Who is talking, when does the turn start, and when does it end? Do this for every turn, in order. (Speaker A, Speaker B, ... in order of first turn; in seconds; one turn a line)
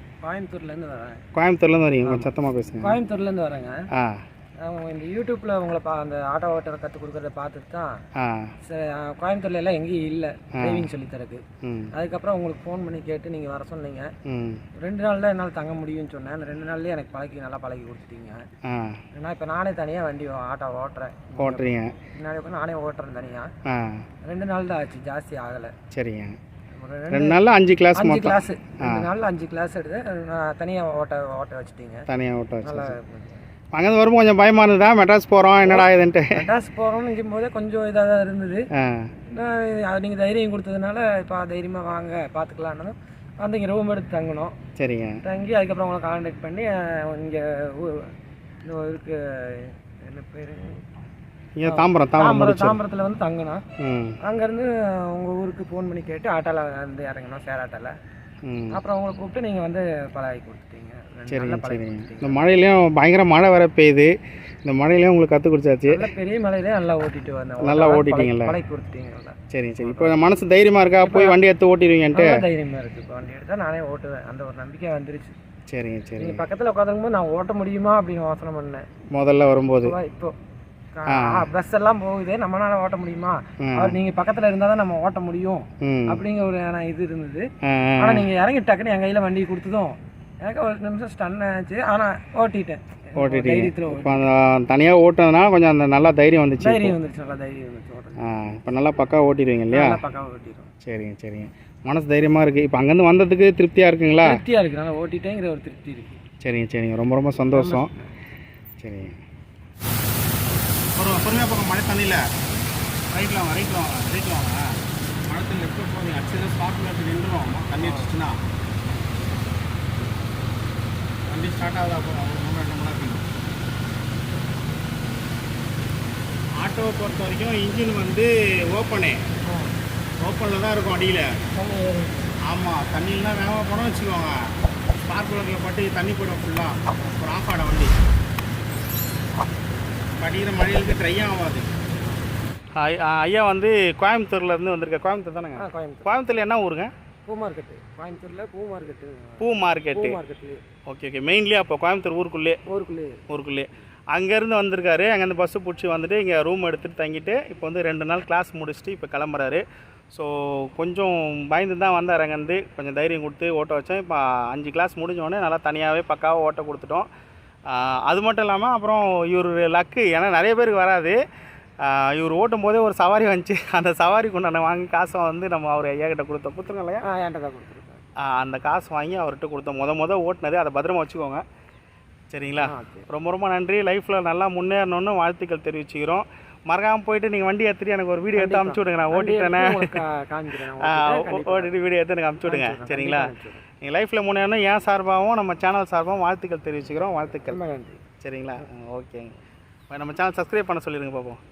Speaker A: 0.2-1.2
Speaker B: 1.4-3.0
Speaker A: 2.0-3.8
Speaker B: 3.9-4.2
Speaker A: 4.6-8.0
Speaker B: 8.2-8.5
Speaker A: 8.6-14.1
Speaker B: 10.6-10.9
Speaker B: 11.6-11.9
Speaker B: 14.2-14.6
Speaker A: 14.8-18.5
Speaker B: 18.6-19.0
Speaker A: 19.1-23.5
Speaker B: 21.4-22.0
Speaker B: 23.6-24.1
Speaker A: 24.2-25.7
Speaker B: 25.9-26.4
Speaker A: 26.8-27.4
Speaker B: 27.1-29.1
Speaker A: 27.9-32.1
Speaker B: 32.1-33.0
Speaker A: 32.6-33.4
Speaker B: 33.7-36.5
Speaker A: 35.6-38.7
Speaker B: 38.7-39.1
Speaker A: 39.3-44.6
Speaker B: 44.8-45.2
Speaker A: 45.2-48.1
Speaker A: 48.6-51.0
Speaker B: 51.6-52.8
Speaker A: 51.6-53.6
Speaker B: 53.8-54.2
Speaker A: 54.2-58.0
Speaker B: 58.5-58.8
Speaker A: 58.7-62.5
Speaker B: 61.3-66.0
Speaker A: 65.9-70.2
Speaker B: 67.6-68.6
Speaker B: 69.5-72.4
Speaker A: 71.0-71.4
Speaker A: 72.1-75.3
Speaker B: 75.7-76.4
Speaker A: 76.2-78.9
Speaker B: 79.1-80.0
Speaker A: 79.8-80.3
Speaker A: 81.0-94.3
Speaker B: 81.1-81.5
Speaker B: 83.6-84.0
Speaker B: 85.8-86.2
Speaker B: 87.6-88.3
Speaker B: 93.2-97.0
Speaker A: 96.6-98.2
Speaker B: 98.2-100.0
Speaker A: 99.7-100.7
Speaker B: 100.8-104.4
Speaker A: 104.2-106.2
Speaker B: 106.4-107.9
Speaker A: 107.5-108.1
Speaker B: 108.8-109.2
Speaker B: 111.0-112.2
Speaker B: 113.1-118.4
Speaker A: 117.8-118.1
Speaker B: 121.3-123.3
Speaker B: 126.6-129.2
Speaker A: 129.4-129.8
Speaker B: 130.2-131.4
Speaker A: 131.5-132.4
Speaker B: 132.4-138.0
Speaker B: 140.2-141.7
Speaker B: 142.8-146.9
Speaker A: 145.6-146.1
Speaker A: 147.3-150.7
Speaker B: 149.4-150.2
Speaker B: 150.9-152.6
Speaker A: 152.7-153.2
Speaker B: 153.3-167.1
Speaker B: 167.7-171.2
Speaker B: 171.8-177.0
Speaker A: 177.0-178.0
Speaker B: 178.2-181.4
Speaker B: 182.3-189.9
Speaker A: 182.6-183.1
Speaker A: 188.3-191.7
Speaker B: 190.8-197.6
Speaker A: 192.4-193.6
Speaker A: 197.5-198.0
Speaker B: 198.2-199.4
Speaker B: 199.9-201.4